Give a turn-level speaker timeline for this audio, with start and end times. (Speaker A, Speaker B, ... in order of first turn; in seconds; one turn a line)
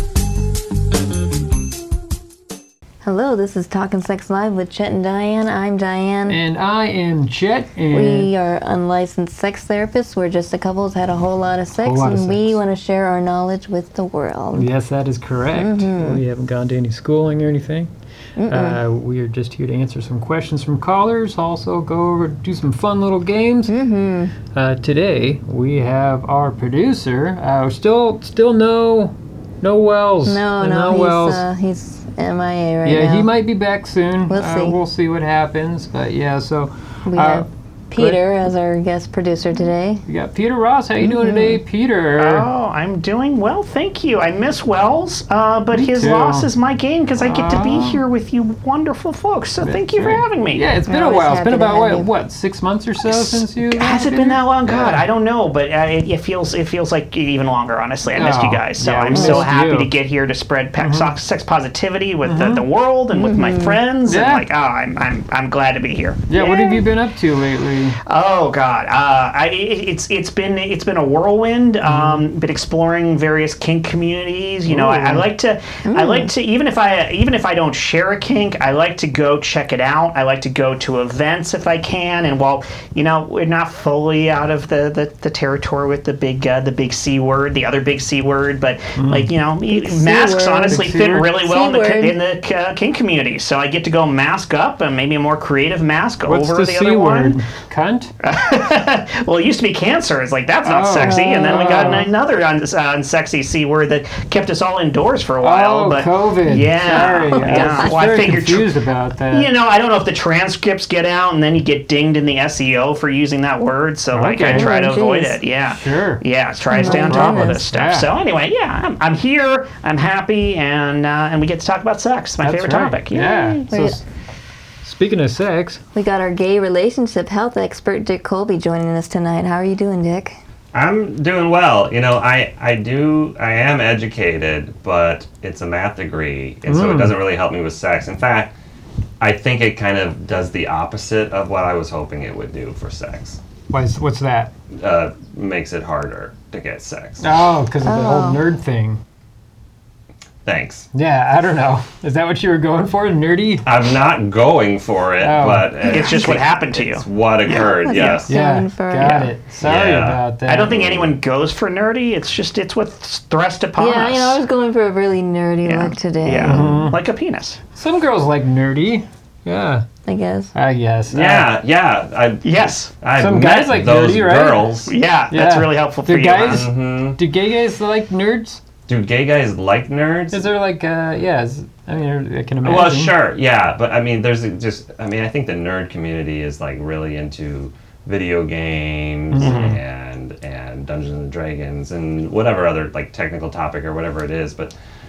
Speaker A: 3.0-6.4
Speaker B: 6.3-8.3
Speaker A: 7.9-14.7
Speaker B: 11.8-12.6
Speaker B: 14.5-17.9
Speaker A: 15.5-16.2
Speaker A: 18.4-18.8
Speaker B: 18.5-23.7
Speaker A: 23.7-24.3
Speaker B: 24.5-31.4
Speaker A: 30.2-33.3
Speaker B: 32.8-38.2
Speaker A: 34.3-34.8
Speaker A: 37.0-40.0
Speaker B: 40.0-42.5
Speaker A: 41.0-41.6
Speaker C: 42.2-50.7
Speaker B: 45.7-46.5
Speaker B: 47.2-48.0
Speaker B: 49.6-55.0
Speaker A: 50.9-52.1
Speaker C: 53.0-66.8
Speaker B: 58.1-59.9
Speaker A: 59.1-59.5
Speaker B: 60.8-61.1
Speaker B: 62.2-62.6
Speaker A: 63.1-63.8
Speaker B: 64.0-64.5
Speaker B: 66.3-68.0
Speaker C: 68.0-97.4
Speaker B: 71.8-72.2
Speaker B: 74.7-75.3
Speaker A: 75.8-76.3
Speaker B: 88.9-89.3
Speaker A: 89.7-92.2
Speaker B: 90.7-91.4
Speaker B: 96.2-98.1
Speaker C: 98.2-108.7
Speaker B: 100.6-102.1
Speaker A: 101.0-102.1
Speaker B: 105.4-109.5
Speaker A: 107.3-108.0
Speaker C: 109.3-123.6
Speaker B: 114.1-114.8
Speaker A: 114.4-115.4
Speaker B: 115.7-118.1
Speaker A: 116.7-117.6
Speaker B: 122.4-124.0
Speaker A: 123.7-124.0
Speaker B: 124.8-125.8
Speaker A: 125.9-130.4
Speaker D: 130.7-138.5
Speaker B: 136.7-137.2
Speaker D: 139.2-143.4
Speaker B: 143.7-144.5
Speaker D: 144.7-147.2
Speaker B: 147.2-149.0
Speaker A: 147.8-148.4
Speaker D: 150.4-150.9
Speaker B: 150.9-153.7
Speaker D: 153.6-158.3
Speaker B: 155.2-155.7
Speaker A: 155.8-156.3
Speaker C: 155.9-158.2
Speaker A: 157.6-159.3
Speaker B: 158.3-160.8
Speaker D: 159.6-161.2
Speaker C: 160.5-164.4
Speaker A: 163.8-166.7
Speaker C: 165.6-167.6
Speaker B: 166.4-167.0
Speaker B: 167.7-169.8
Speaker A: 170.1-170.5
Speaker B: 170.5-171.5
Speaker D: 171.1-174.9
Speaker C: 172.4-172.9
Speaker B: 173.2-178.6
Speaker C: 174.9-176.7
Speaker D: 176.3-177.2
Speaker D: 178.9-180.5
Speaker B: 180.3-183.2
Speaker D: 182.6-194.7
Speaker B: 189.3-189.8
Speaker C: 189.4-189.8